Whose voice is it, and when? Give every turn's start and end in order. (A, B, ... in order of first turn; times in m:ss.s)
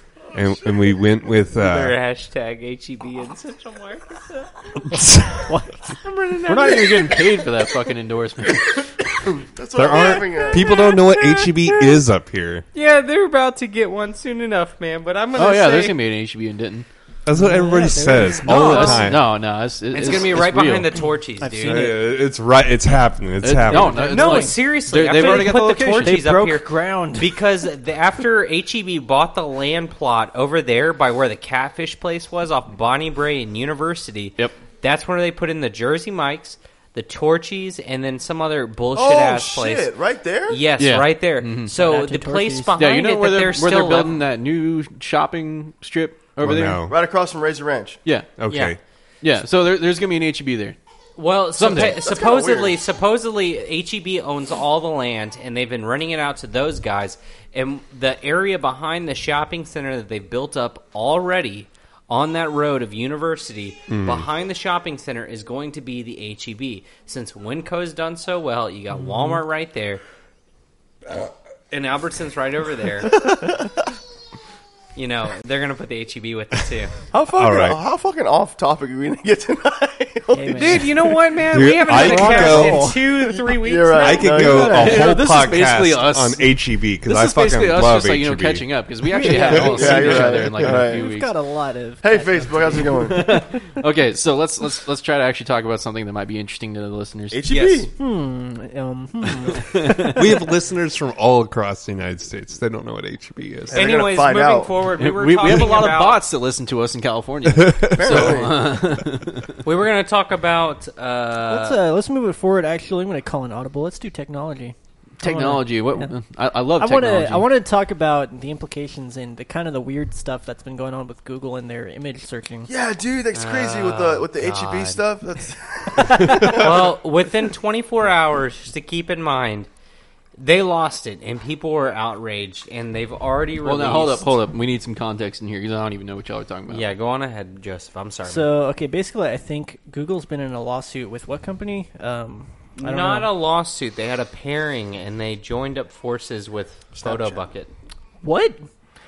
0:00.3-0:02.0 A
0:01.6-0:05.0 B
0:05.4-0:05.8 C
0:05.9-0:07.5 B
0:06.4-0:08.8 D
0:09.2-0:10.7 E
0:09.7-0:12.6 A
0:10.7-0:12.0 B
0:12.7-0:16.0 B
0:15.4-0:16.9 D
0:17.2-0:19.2 A
0:17.3-0:18.9 C
0:18.4-0:19.1 B
0:18.5-0:21.0 D
0:19.9-0:21.9 B
0:21.4-0:22.0 C
0:21.6-0:24.1 A
0:23.4-0:26.2 D
0:23.7-0:24.6 C
0:24.0-0:39.9 B
0:26.0-0:27.4 C
0:38.9-0:40.6 E
0:40.5-0:44.1 B
0:40.8-0:41.7 D
0:41.7-0:42.8 C
0:42.8-0:46.8 D
0:46.4-0:46.9 A
0:46.8-0:48.0 E
0:48.0-0:48.4 D
0:48.4-0:48.8 A
0:48.5-0:48.8 B
0:49.2-0:50.8 D
0:51.2-1:10.0 B
0:51.6-0:52.0 D
0:52.0-0:52.8 E
1:03.9-1:04.3 A
1:11.7-1:13.2 B
1:13.2-1:13.7 E
1:14.9-1:17.0 B
1:17.1-1:21.2 E
1:17.3-1:17.8 A
1:20.3-1:21.0 C
1:20.5-1:24.5 B
1:21.5-1:22.9 A
1:21.9-1:23.0 C
1:23.2-1:25.1 E
1:24.0-1:28.7 A
1:24.4-1:26.5 D
1:27.0-1:31.3 D
1:29.1-1:33.3 C
1:29.3-1:31.0 E
1:32.0-1:33.4 E
1:32.9-1:37.9 D
1:37.3-1:37.9 E
1:38.0-1:40.2 C
1:39.5-1:40.1 D
1:40.0-1:44.0 A
1:43.7-1:44.8 E
1:43.7-1:46.2 B
1:45.0-1:49.6 D
1:47.6-1:48.4 A
1:47.9-1:48.8 E
1:49.6-1:51.8 B
1:51.5-1:56.1 C
1:55.2-1:57.5 D
1:56.8-2:02.7 C
2:02.7-2:07.0 E
2:03.3-2:05.0 B
2:06.0-2:09.7 B
2:10.4-2:14.3 B
2:13.6-2:16.9 D
2:16.7-2:18.5 B
2:18.3-2:23.3 C
2:22.8-2:27.7 B
2:27.0-2:27.4 E
2:28.2-2:28.6 C